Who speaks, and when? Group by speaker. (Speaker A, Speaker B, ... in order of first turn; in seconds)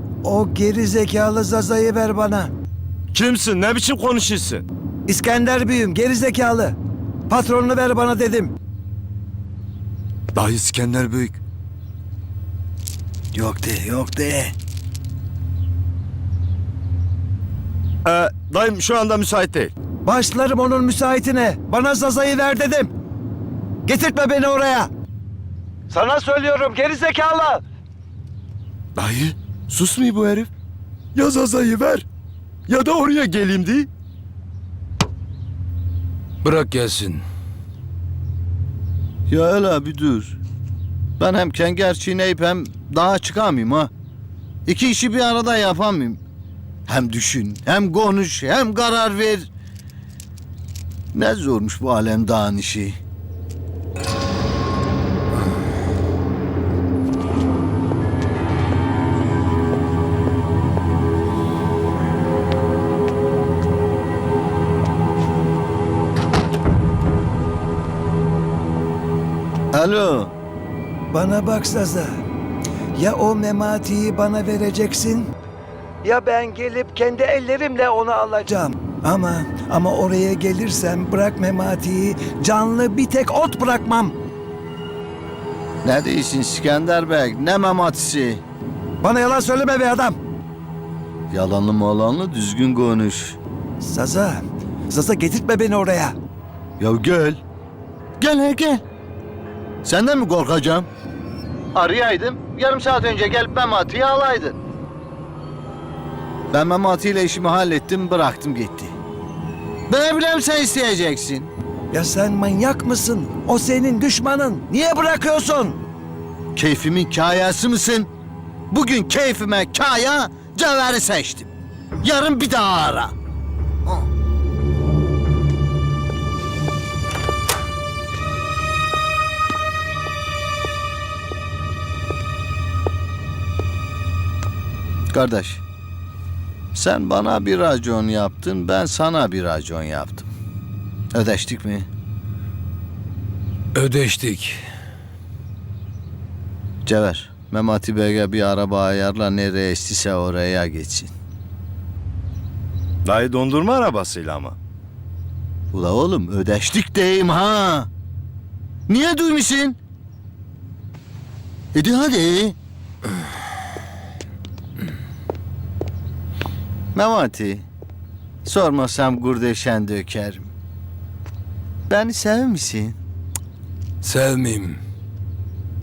Speaker A: 0.2-2.5, 5.1-6.8, 7.3-8.5, 20.0-22.9, 23.8-24.9, 25.9-27.6, 71.1-72.1, 72.9-75.3, 76.0-84.1, 89.0-90.2, 93.8-96.2, 111.9-115.8
Speaker B: 3.1-4.6, 10.3-11.4, 18.0-19.7, 28.9-30.5, 31.1-32.0, 32.7-33.9, 153.0-154.6
Speaker C: 13.3-14.5, 39.3-40.4, 41.2-43.9, 44.6-46.2, 46.9-49.5, 51.1-53.0, 69.7-70.3, 85.8-88.4, 91.3-93.4, 96.8-97.4, 98.2-98.8, 99.8-100.9, 101.7-104.6, 106.5-108.9, 109.9-111.5, 116.5-118.1, 118.7-121.5, 122.0-123.1, 135.1-135.6, 136.7-140.3, 141.1-141.9, 146.8-151.1, 155.7-157.9, 158.9-159.8, 161.7-162.6, 166.9-167.7, 168.4-170.5, 171.9-172.9
Speaker D: 36.4-37.2, 143.7-144.6, 174.0-174.8